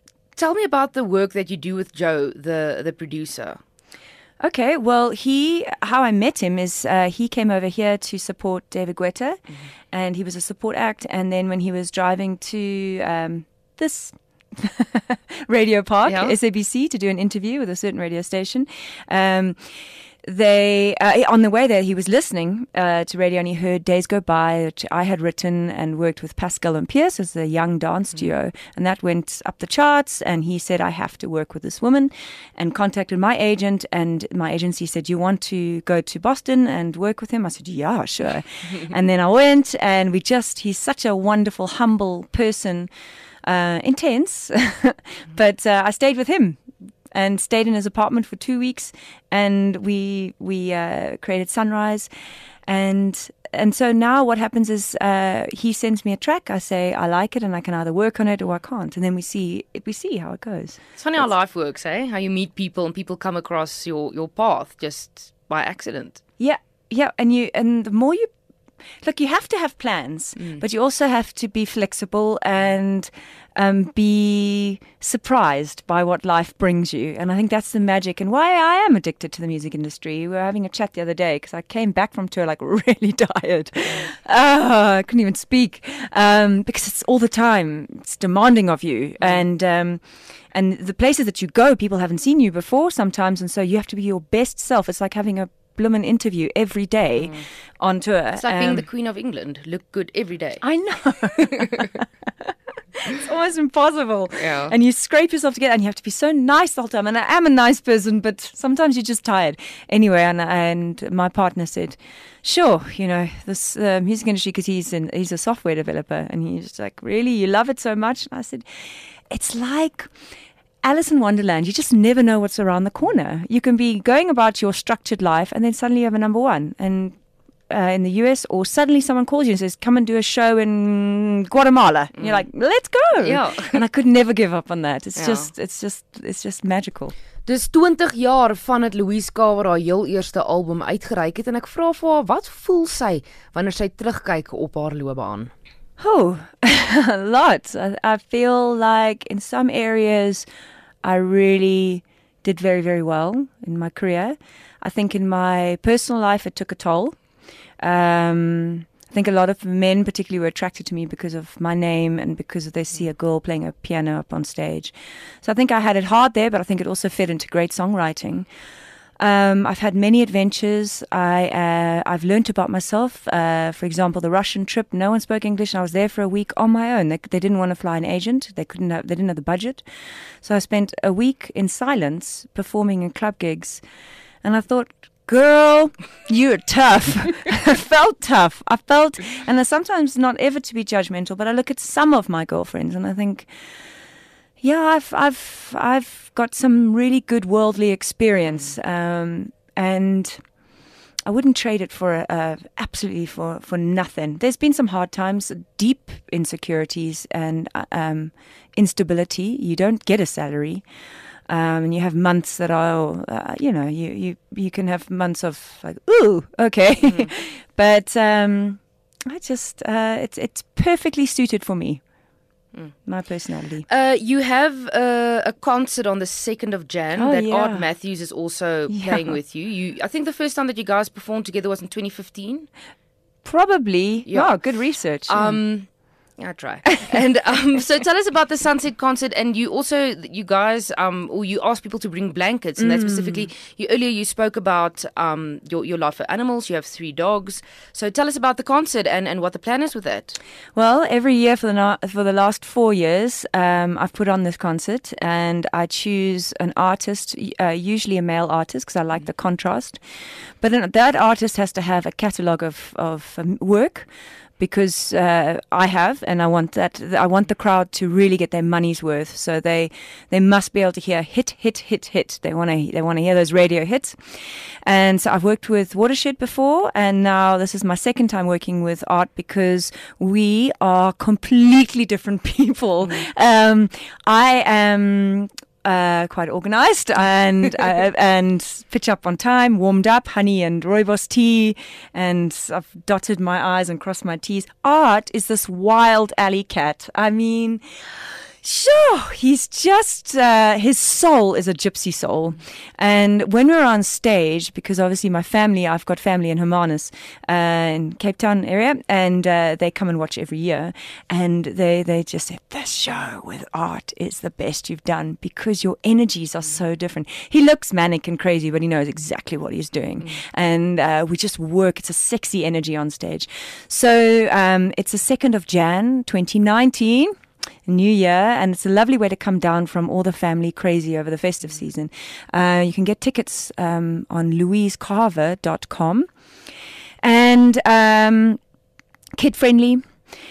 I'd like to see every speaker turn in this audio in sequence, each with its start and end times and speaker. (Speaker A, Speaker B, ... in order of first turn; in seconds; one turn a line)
Speaker A: 0.3-3.6
Speaker B: 4.4-19.6
Speaker A: 16.0-16.4
Speaker B: 20.2-42.9
Speaker B: 43.4-52.1
Speaker B: 52.7-61.2
Speaker A: 61.0-66.2
Speaker B: 66.4-68.3
Speaker B: 69.0-98.8
Speaker A: 98.4-100.6
Speaker B: 100.6-118.6
Speaker A: 104.4-104.7
Speaker B: 119.3-120.1
Speaker B: 120.8-137.1
Speaker A: 132.2-132.4
Speaker A: 133.2-133.8
Speaker A: 135.2-135.5
Speaker A: 137.4-145.5
Speaker B: 146.0-150.5
Speaker B: 151.0-157.2
Speaker B: 157.8-168.5
Speaker B: 169.2-179.8
Speaker B: 180.4-183.8
Speaker B: 184.4-193.5
Speaker B: 194.6-200.5
Speaker B: 201.2-210.8
Speaker B: 211.5-222.1
Speaker B: 223.1-223.8
Speaker A: 223.9-232.7
Speaker B: 227.2-227.8
Speaker B: 228.9-229.4
Speaker B: 233.4-235.6
Speaker A: 234.2-234.6
Speaker A: 235.2-250.4
Speaker B: 242.8-243.5
Speaker B: 250.7-260.0
Speaker B: 260.6-264.1
Speaker B: 264.6-327.3
Speaker B: 327.9-336.3
Speaker B: 337.2-338.6
Speaker B: 339.4-340.1